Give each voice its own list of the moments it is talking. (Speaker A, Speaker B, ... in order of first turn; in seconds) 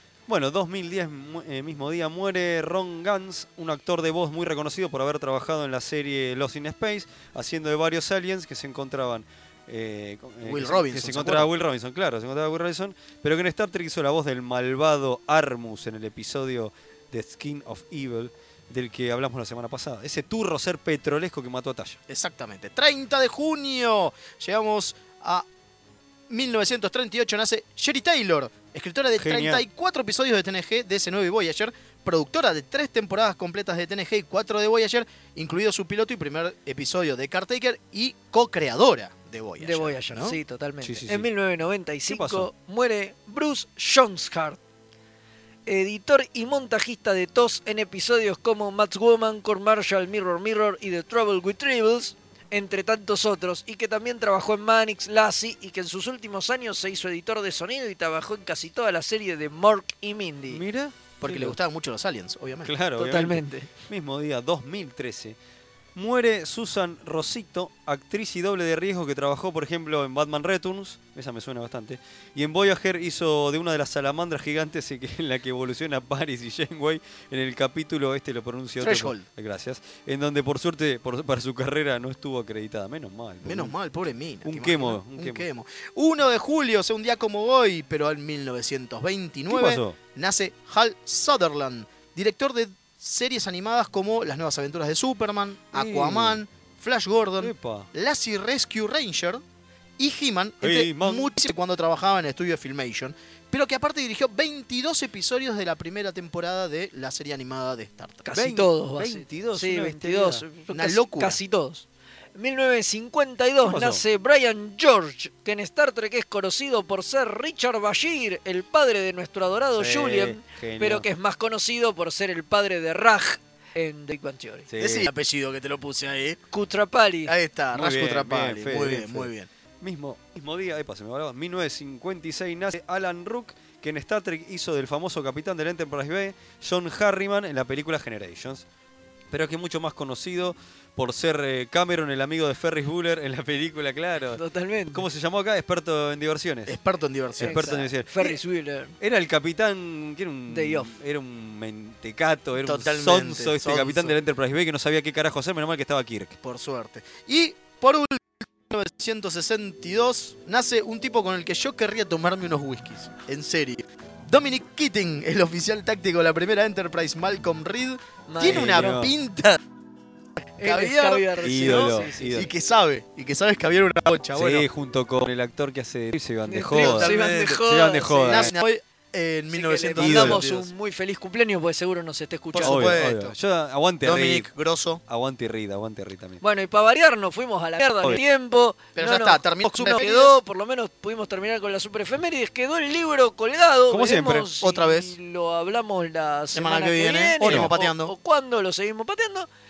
Speaker A: 0.3-22.0, 29.2-29.6, 40.8-41.3, 42.1-42.5, 60.5-61.6, 62.6-65.4, 66.0-83.7, 84.4-85.5, 89.5-90.0, 95.7-96.4, 97.4-97.9, 100.6-101.3, 108.3-110.5, 113.6-114.0, 119.8-121.1, 124.7-125.1, 127.7-129.3, 129.8-138.7, 139.3-144.4, 144.9-146.8, 147.4-148.4, 149.0-156.4, 168.4-169.1, 171.4-172.5, 174.3-178.5, 180.0-180.5, 182.6-184.5, 185.1-186.4, 193.9-194.5, 197.4-197.7
Speaker B: 10.4-11.5, 22.1-25.5, 26.3-40.4, 61.2-62.7, 78.8-79.2, 83.4-99.4, 100.0-108.3, 110.7-111.4, 124.8-126.4, 127.3-129.5, 146.7-147.8, 152.6-154.2, 156.4-169.6, 170.6-174.7, 176.7-177.6, 178.2-180.7, 182.5-183.3, 184.0-185.0, 189.0-190.4, 194.6-195.2, 196.5-198.1
Speaker C: 39.6-44.6, 45.7-60.6, 63.0-63.7, 108.2-111.8, 112.4-124.7, 126.5-127.3, 144.3-145.0, 147.4-148.9, 150.5-150.9, 168.3-169.1, 170.6-172.4, 176.5-178.5, 179.5-182.9, 186.4-199.5